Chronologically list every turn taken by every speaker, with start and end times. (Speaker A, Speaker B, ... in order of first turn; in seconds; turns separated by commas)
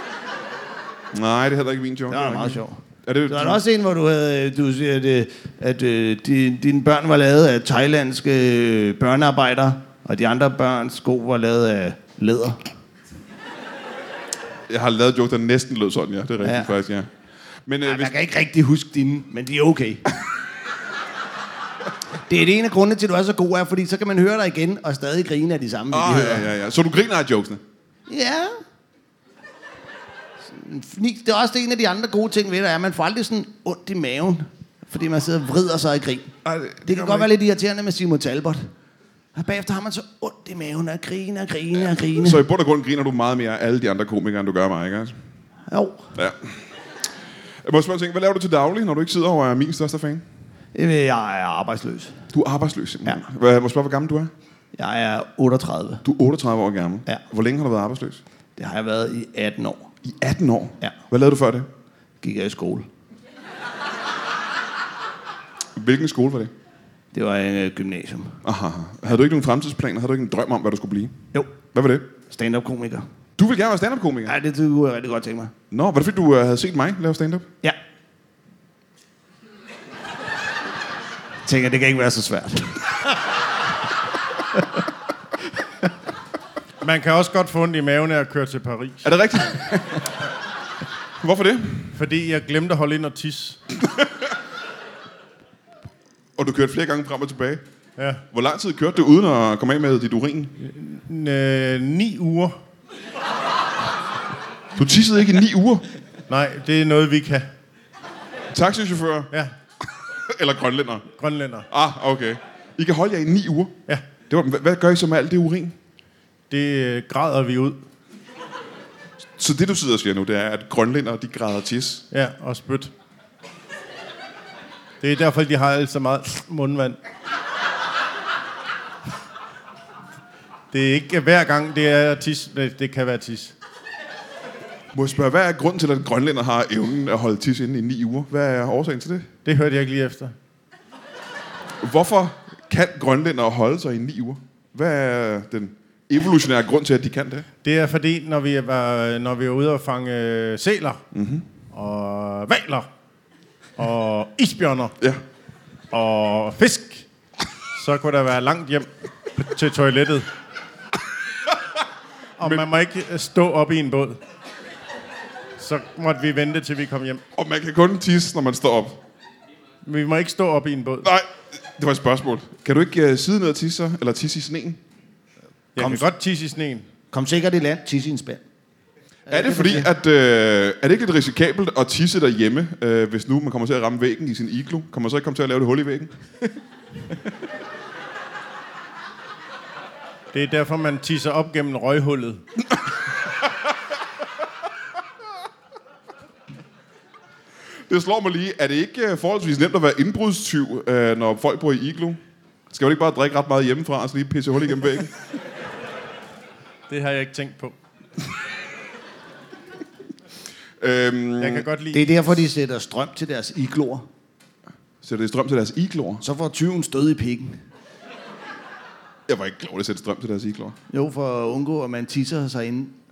Speaker A: 1.1-3.6, Speaker B: 2.1-12.7, Speaker A: 14.7-17.1, Speaker B: 16.4-16.7, Speaker A: 17.7-18.1, Speaker B: 17.9-20.0, Speaker B: 22.3-26.5, Speaker A: 25.9-27.6, Speaker B: 28.1-28.6, Speaker B: 30.4-36.3, Speaker A: 36.5-37.3, Speaker B: 36.9-38.7, Speaker B: 39.4-42.4, Speaker A: 42.1-45.2, Speaker B: 45.7-46.1, Speaker A: 46.2-46.6, Speaker A: 47.6-50.2, Speaker B: 50.7-52.2, Speaker A: 52.3-54.3, Speaker B: 54.8-56.0, Speaker A: 56.0-58.2, Speaker B: 58.6-59.9, Speaker A: 60.0-61.7, Speaker B: 62.2-62.9, Speaker A: 65.8-66.5, Speaker B: 67.1-68.4, Speaker A: 68.4-72.1, Speaker B: 72.2-73.1, Speaker A: 73.4-74.4, Speaker B: 74.3-75.5, Speaker A: 75.7-77.5, Speaker B: 81.5-83.1, Speaker C: 86.8-89.1, Speaker A: 89.0-90.0, Speaker A: 91.2-91.9, Speaker C: 91.9-93.6, Speaker A: 96.4-97.6, Speaker A: 98.3-100.5, Speaker C: 100.6-102.6, Speaker A: 104.8-105.9, Speaker C: 106.3-107.5, Speaker A: 108.5-109.3, Speaker A: 110.3-111.1, Speaker C: 111.2-111.7, Speaker A: 111.7-113.8, Speaker A: 114.3-115.7, Speaker C: 116.5-117.8, Speaker A: 119.4-122.0, Speaker C: 122.1-122.9, Speaker C: 125.0-127.0, Speaker C: 130.7-133.5, Speaker A: 134.9-139.3, Speaker C: 139.4-140.3, Speaker A: 141.8-147.5, Speaker C: 147.6-151.0, Speaker A: 151.1-151.4, Speaker C: 151.7-152.9, Speaker C: 153.8-154.9, Speaker C: 155.9-157.1, Speaker C: 157.7-160.3, Speaker C: 162.4-164.2, Speaker C: 165.6-167.2, Speaker A: 167.3-169.0, Speaker C: 169.8-171.1, Speaker A: 171.0-174.8, Speaker C: 175.8-176.9, Speaker B: 175.8-176.1, Speaker B: 177.1-178.4, Speaker B: 179.3-179.9, Speaker A: 179.3-186.2, Speaker C: 190.3-192.4, Speaker A: 197.9-202.2, Speaker A: 202.7-205.1, Speaker C: 206.9-207.8, Speaker A: 210.8-211.7, Speaker C: 211.4-212.2, Speaker B: 211.9-214.1, Speaker A: 215.0-216.2, Speaker B: 216.2-217.6, Speaker A: 219.3-220.8, Speaker B: 220.9-223.0